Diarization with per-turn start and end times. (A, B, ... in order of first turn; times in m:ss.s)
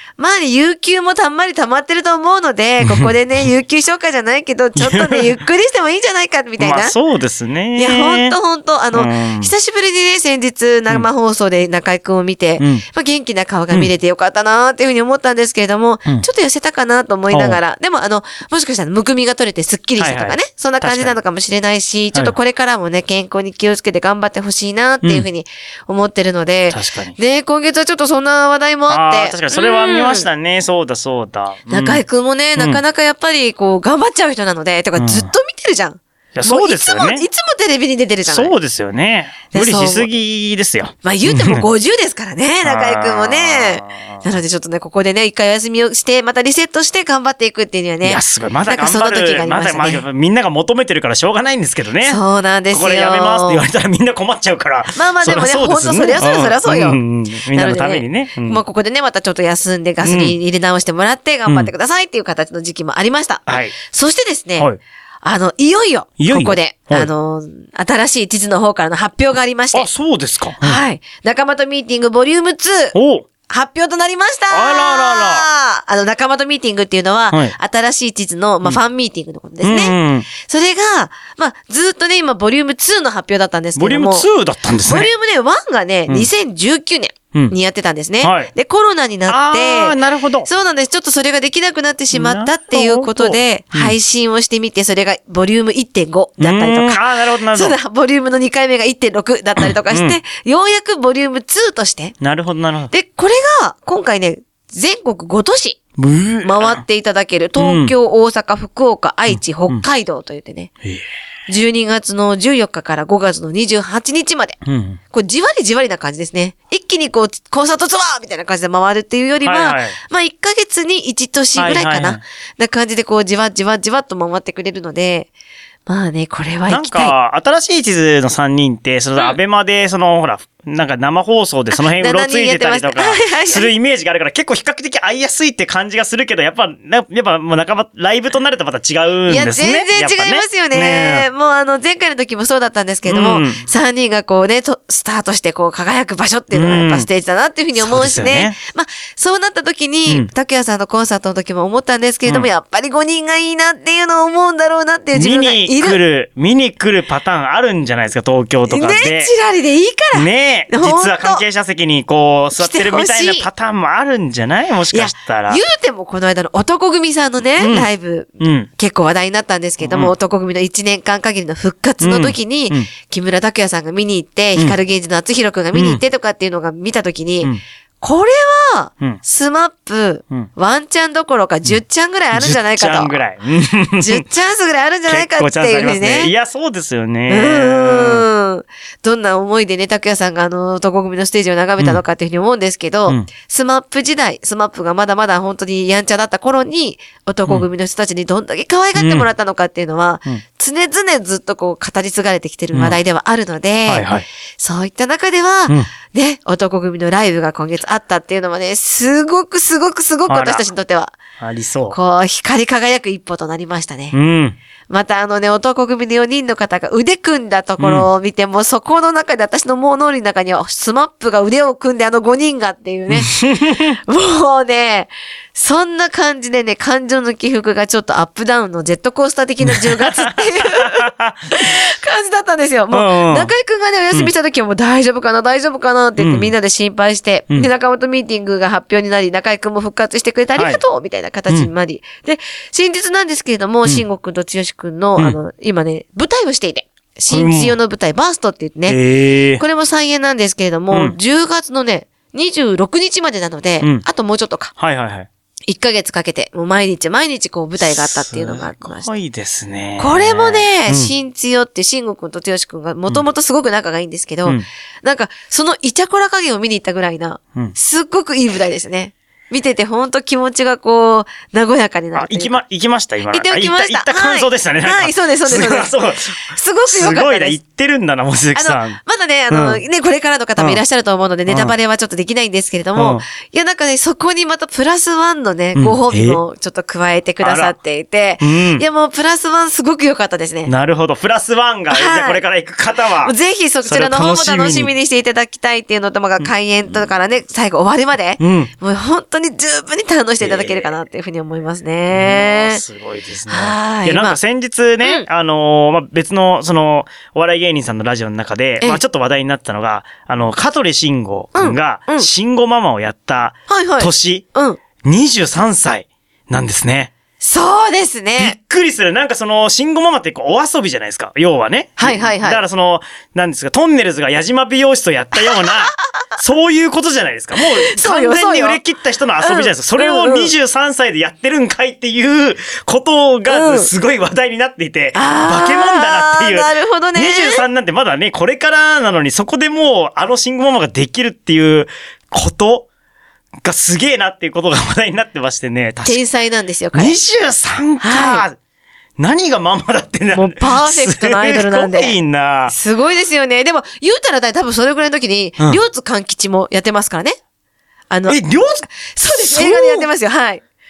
0:00.2-0:07.0 A
0:02.8-0:03.1 B
0:04.8-0:05.4 B
0:06.6-0:08.4 B
0:07.8-0:30.3 A
0:08.9-0:09.5 B
0:12.6-0:12.8 B
0:17.3-0:17.6 B
0:20.0-0:21.2 B
0:26.7-0:27.2 B
0:28.9-0:32.0 B
0:31.7-0:38.5 A
0:32.6-0:32.8 B
0:35.0-0:35.3 B
0:36.4-0:37.2 B
0:38.3-0:41.7 B
0:39.5-0:40.1 A
0:41.0-0:50.0 A
0:42.6-0:44.3 B
0:48.0-0:52.2 B
0:52.0-0:53.6 A
0:52.7-0:58.6 B
0:55.0-0:57.0 A
0:57.5-1:04.7 A
1:00.0-1:00.4 B
1:01.5-1:01.7 B
1:03.5-1:03.8 B
1:05.2-1:09.9 A
1:06.2-1:07.1 B
1:09.7-1:10.8 B
1:10.6-1:13.0 A
1:12.9-1:13.3 B
1:13.5-1:24.3 A
1:14.5-1:15.5 B
1:17.3-1:17.6 B
1:19.6-1:20.3 B
1:23.8-1:25.1 B
1:24.8-1:42.2 A
1:28.2-1:28.5 B
1:29.3-1:30.5 B
1:32.1-1:34.0 B
1:36.4-1:37.8 B
1:39.6-1:40.2 B
1:42.2-1:42.9 B
1:42.9-1:45.8 A
1:46.0-1:46.8 B
1:46.4-1:50.7 A
1:47.6-1:47.9 B
1:49.3-1:49.8 B
1:51.5-1:54.6 A
1:54.6-1:55.0 B
1:55.1-2:05.3 A
1:59.4-2:00.0 B
2:01.6-2:02.2 B
2:05.9-2:07.1 A
2:06.7-2:21.3 B
2:11.7-2:13.7 A
2:19.3-2:36.0 A
2:23.1-2:23.6 B
2:26.5-2:27.1 B
2:27.8-2:28.6 B
2:35.1-2:39.3 B
2:38.7-2:41.4 A
2:40.1-2:45.6 B
2:42.6-2:43.5 A
2:44.9-3:03.2 A
2:47.6-2:47.9 B
2:48.4-2:48.7 B
2:49.8-2:50.1 B
2:52.0-2:52.9 B
2:55.7-2:56.0 B
3:02.3-3:04.2 B
3:04.0-3:06.3 A
3:05.1-3:08.3 B
3:07.3-3:31.2 A
3:19.0-3:19.3 B
3:22.7-3:23.0 B
3:23.9-3:24.3 B
3:30.3-3:30.6 B
3:31.4-3:32.0 B
3:31.9-3:34.2 A
3:34.1-3:34.6 B
3:34.9-3:43.3 A
3:37.8-3:38.1 B
3:43.1-3:44.0 B
3:44.0-4:09.0 A
3:49.7-3:51.8 B
3:52.9-3:53.5 B
3:56.2-3:56.5 B
4:00.6-4:00.8 B
4:07.3-4:07.8 B
4:08.9-4:09.6 B
4:09.6-4:14.7 A
4:14.8-4:15.3 B
4:15.7-4:19.1 A
4:17.8-4:21.1 B
4:20.0-4:32.6 A
4:32.2-4:39.0 B
4:33.3-4:35.9 A
4:36.5-4:37.6 A
4:38.6-4:50.7 A
4:39.5-4:39.8 B
4:41.5-4:41.8 B
4:43.0-4:43.2 B
4:45.8-4:46.4 B
4:47.4-4:47.8 B
4:48.4-4:48.8 B
4:50.7-4:54.9 B
4:51.9-4:52.4 A
4:53.2-5:02.8 A
4:58.4-4:58.7 B
5:00.4-5:00.9 B
5:02.1-5:14.4 B
5:03.5-5:04.4 A
5:11.6-5:12.3 A
5:13.7-5:14.8 A
5:15.0-5:17.1 B
5:17.4-5:18.6 A
5:18.4-5:42.9 B
5:22.0-5:22.6 A
5:25.4-5:25.8 A
5:27.6-5:28.8 A
5:29.4-5:30.5 A
5:33.5-5:33.9 A
5:35.2-5:37.6 A
5:43.6-5:46.2 B
5:46.0-5:47.2 A
5:46.9-5:48.6 B
5:48.0-5:48.4 A
5:49.2-5:52.8 B
5:50.3-5:52.2 A
5:52.7-5:57.4 A
5:58.1-6:00.6 A
5:58.3-6:00.1 B